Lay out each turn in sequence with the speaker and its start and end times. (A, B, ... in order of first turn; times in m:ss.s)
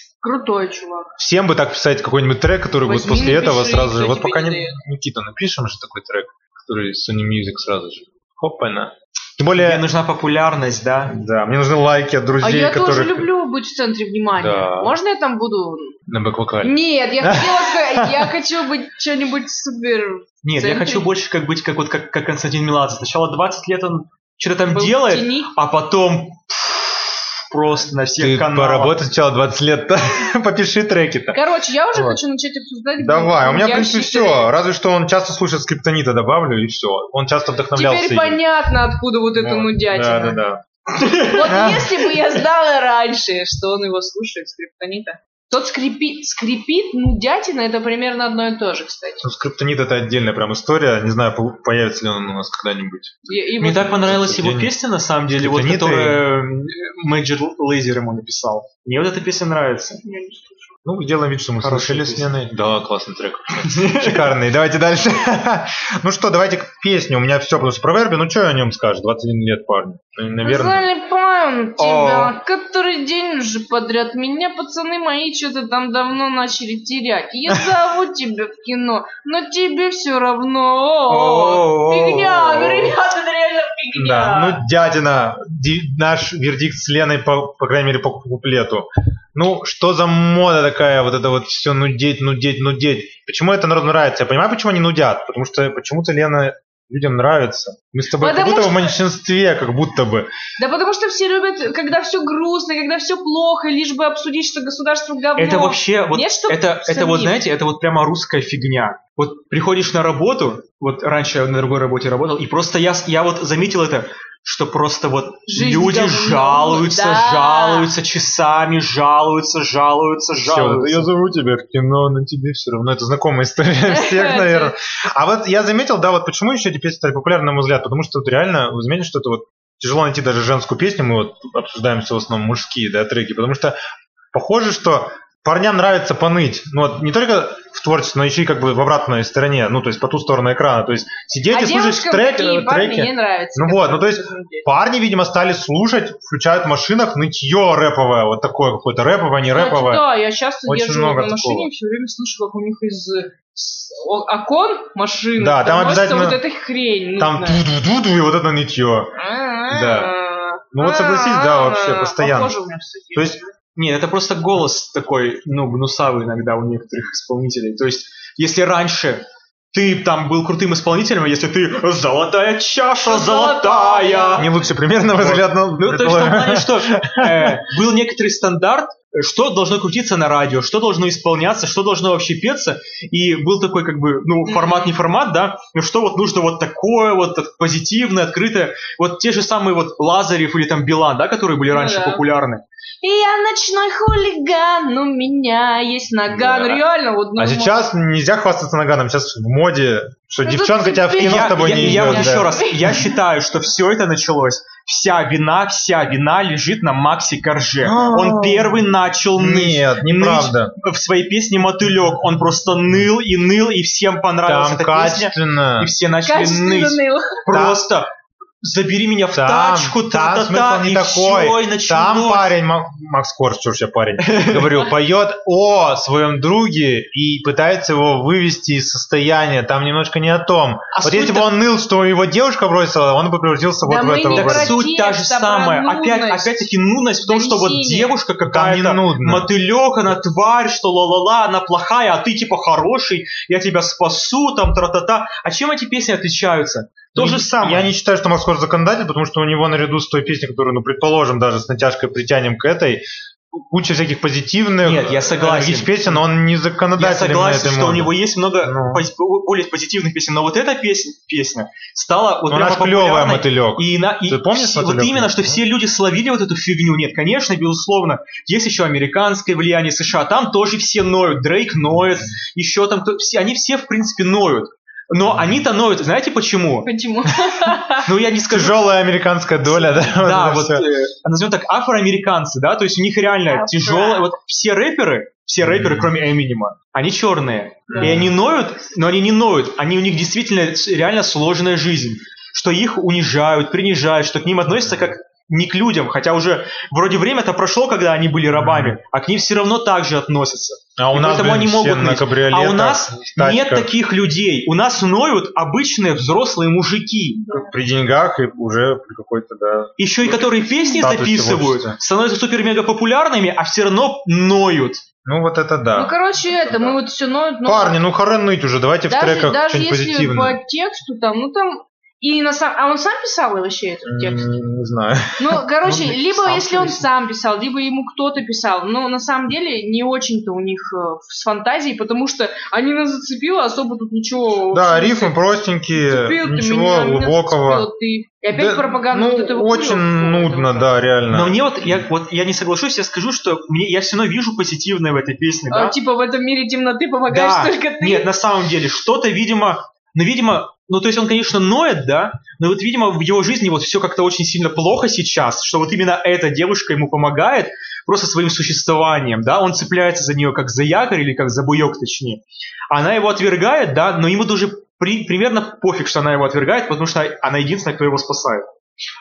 0:00.2-0:01.1 A
0:01.2-0:09.8 B
0:02.8-0:04.8 A
0:09.6-0:11.1 C
0:11.1-0:13.3 B
0:12.4-0:16.0 A
0:14.4-0:15.0 B
0:16.1-0:18.3 B
0:16.6-0:21.1 A
0:20.4-0:29.0 C
0:24.7-0:25.5 A
0:28.2-0:31.4 B
0:31.3-0:34.5 A
0:31.9-0:32.2 B
0:33.0-0:38.4 B
0:37.7-0:40.4 A
0:39.3-0:40.6 B
0:41.0-0:41.4 C
0:41.2-0:49.2 A
0:41.4-0:41.9 B
0:49.2-0:53.1 B
0:53.3-0:54.1 A
0:53.6-1:00.0 C
0:53.9-0:54.7 B
0:55.3-0:56.2 B
1:00.0-1:00.7 A
1:00.8-1:10.8 B
1:01.6-1:02.3 C
1:03.7-1:04.3 C
1:10.4-1:24.6 A
1:11.8-1:12.3 C
1:21.1-1:22.8 C
1:23.9-1:40.3 B
1:38.2-1:38.9 A
1:40.6-1:47.4 A
1:45.4-2:01.1 C
1:55.5-1:57.9 A
2:00.4-2:13.7 B
2:03.8-2:04.7 A
2:14.3-2:30.0 B
2:21.5-2:24.7 A
2:29.5-2:37.6 A
2:30.6-2:31.7 B
2:35.4-2:36.4 B
2:37.2-2:39.1 B
2:39.2-2:43.5 A
2:39.7-2:40.1 B
2:40.7-2:42.5 B
2:43.1-2:43.4 B
2:43.7-2:54.5 C
2:53.0-2:54.5 A
2:54.4-2:57.6 B
2:55.1-3:12.6 C
3:04.4-3:04.9 A
3:11.7-3:12.2 A
3:13.0-3:17.8 A
3:16.3-3:16.8 B
3:17.4-3:22.6 B
3:20.4-3:23.2 A
3:21.2-3:42.5 C
3:27.8-3:28.8 B
3:29.4-3:30.7 B
3:34.4-3:35.9 B
3:36.2-3:37.4 A
3:37.5-3:37.8 B
3:39.3-3:54.8 B
3:44.2-3:44.8 C
3:50.9-3:51.5 C
3:53.8-3:56.7 A
3:54.3-4:07.9 C
3:57.2-3:58.2 A
3:58.5-3:59.5 B
4:07.2-4:18.1 B
4:14.8-4:16.2 C
4:17.0-4:36.9 C
4:18.6-4:19.0 B
4:22.5-4:25.6 B
4:36.8-4:38.1 A
4:38.0-4:38.8 C
4:38.5-4:40.9 B
4:39.6-5:07.4 C
4:43.5-4:44.3 A
4:45.6-4:46.1 B
4:47.9-4:48.2 A
4:47.9-4:48.3 B
4:58.5-4:59.0 B
5:01.0-5:03.9 B
5:07.4-5:07.7 A
5:07.5-5:12.0 B
5:10.0-5:15.0 C
5:15.2-5:17.0 B
5:15.9-5:18.0 A
5:17.6-5:20.6 B
5:19.1-5:24.5 A
5:24.0-5:27.0 B
5:25.4-5:35.3 A
5:34.7-5:37.8 B
5:35.9-5:41.0 A
5:38.5-5:42.0 B
5:41.3-5:46.0 C
5:45.7-5:48.3 A
5:47.3-6:08.7 C